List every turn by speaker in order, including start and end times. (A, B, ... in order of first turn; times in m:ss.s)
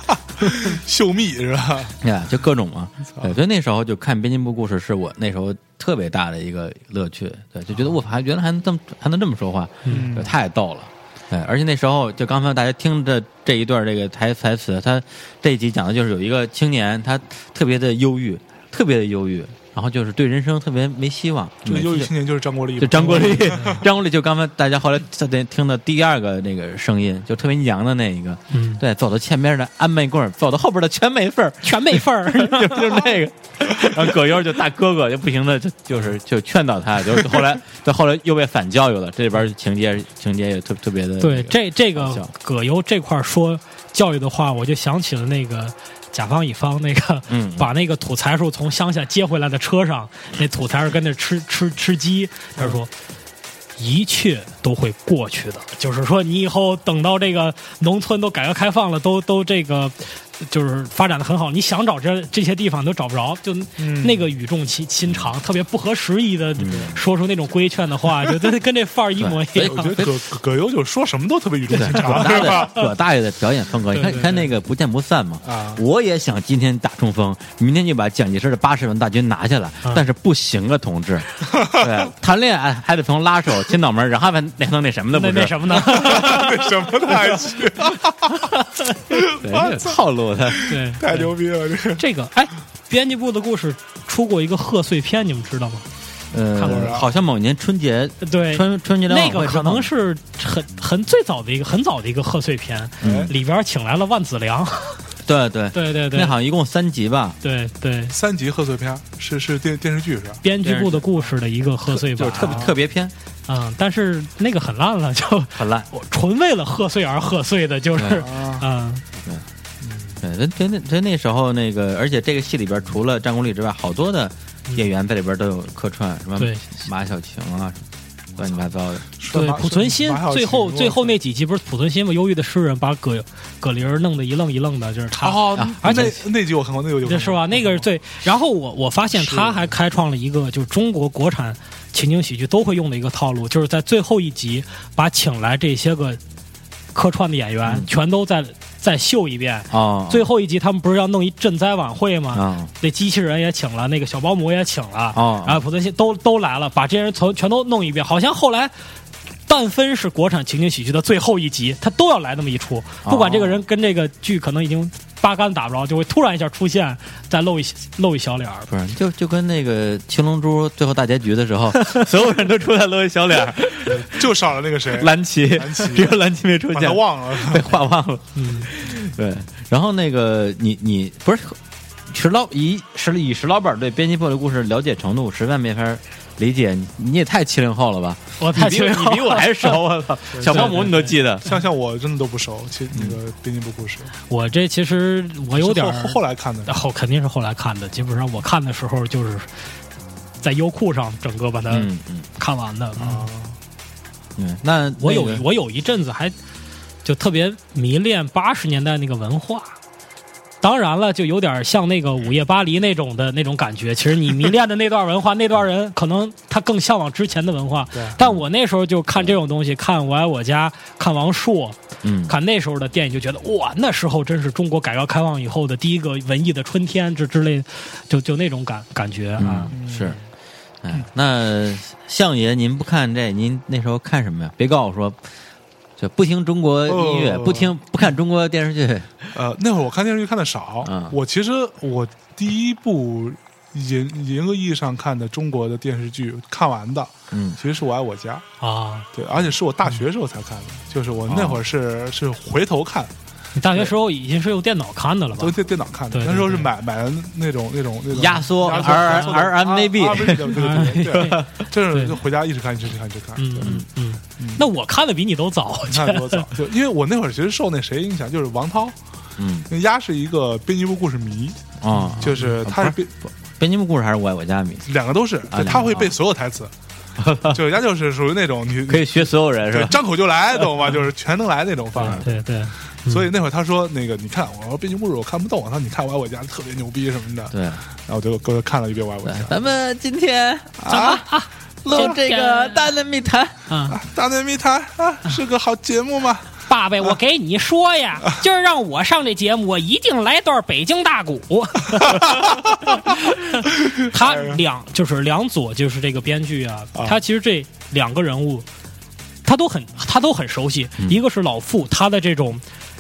0:00.4-0:01.9 A
0:02.0-0:22.1 B
0:09.9-0:10.3 A
0:21.6-0:23.8 A
0:22.8-0:42.3 B
0:28.5-0:28.8 C
0:31.6-0:33.0 C
0:41.2-0:52.9 C
0:47.3-0:47.7 B
0:53.8-1:10.0 C
1:03.8-1:04.3 A
1:06.6-1:07.0 B
1:06.7-1:06.9 A
1:09.2-1:10.1 B
1:09.6-1:12.8 A
1:11.7-1:26.4 B
1:11.9-1:12.9 C
1:13.9-1:14.4 C
1:15.4-1:15.8 A
1:21.5-1:22.1 A
1:25.1-1:27.1 C
1:25.8-1:28.5 A
1:28.3-1:30.6 B
1:29.1-1:32.0 A
1:30.7-1:31.3 C
1:31.9-1:35.8 C
1:36.3-1:39.9 B
1:36.5-1:37.0 C
1:36.6-1:37.1 A
1:38.2-1:45.0 C
1:43.0-1:43.3 B
1:43.0-1:43.3 A
1:45.2-1:47.4 B
1:45.7-1:46.3 C
1:47.4-1:48.1 C
1:48.1-1:50.4 A
1:50.4-1:52.7 C
1:50.6-1:51.1 B
1:51.9-1:53.1 B
1:52.4-1:52.7 A
1:53.5-1:59.0 C
1:55.5-1:55.9 B
1:58.0-1:58.2 B
1:58.2-1:58.6 A
1:59.2-1:59.4 B
1:59.8-2:00.2 A
2:00.2-2:07.8 B
2:06.4-2:06.8 C
2:08.4-2:09.0 B
2:09.2-2:11.2 A
2:09.3-2:16.2 C
2:15.2-2:17.8 A
2:15.5-2:16.1 B
2:17.0-2:26.2 C
2:19.1-2:19.7 A
2:26.9-2:38.7 C
2:29.7-2:30.2 B
2:32.3-2:32.7 B
2:35.1-2:35.6 B
2:39.5-2:48.7 C
2:43.0-2:43.6 B
2:48.7-2:54.3 B
2:53.8-2:56.2 A
2:54.9-3:01.6 B
2:56.7-2:57.8 A
2:58.3-2:58.7 C
3:02.1-3:11.4 B
3:08.4-3:09.8 C
3:10.3-3:10.9 A
3:10.4-3:11.2 C
3:11.4-3:14.1 A
3:14.3-3:19.5 C
3:15.6-3:16.7 A
3:20.4-3:23.2 C
3:21.7-3:22.3 B
3:23.0-3:23.6 A
3:24.4-3:25.4 B
3:25.0-3:26.3 C
3:27.0-3:29.8 C
3:30.6-3:49.7 C
3:42.0-3:42.3 B
3:49.4-3:50.2 B
3:49.7-3:50.2 A
3:50.8-3:55.2 B
3:56.0-3:59.1 B
3:56.8-3:57.8 A
3:59.3-4:08.4 A
4:00.8-4:01.2 B
4:07.3-4:07.6 B
4:08.6-4:09.1 C
4:09.1-4:13.1 A
4:11.3-4:11.6 B
4:13.6-4:15.6 C
4:15.4-4:23.8 A
4:16.1-4:16.7 C
4:18.1-4:21.5 B
4:18.8-4:19.4 C
4:20.5-4:22.2 C
4:23.4-4:26.5 C
4:24.4-4:24.7 A
4:25.8-4:29.0 A
4:29.4-4:29.7 B
4:29.7-4:33.1 A
4:31.8-4:34.9 B
4:32.0-4:32.5 C
4:34.8-4:36.7 A
4:35.5-4:36.1 B
4:37.2-4:37.6 B
4:37.5-4:42.2 A
4:38.9-4:40.0 B
4:42.0-4:43.3 C
4:43.0-4:49.7 A
4:47.5-4:47.8 B
4:49.2-4:51.2 B
4:50.8-4:51.2 A
4:50.9-4:52.9 C
4:51.8-4:53.6 B
4:53.7-4:54.0 C
4:53.9-4:57.1 A
4:56.7-5:08.7 C
5:02.0-5:03.0 A
5:03.7-5:04.6 A
5:06.9-5:07.2 A
5:09.4-5:12.6 C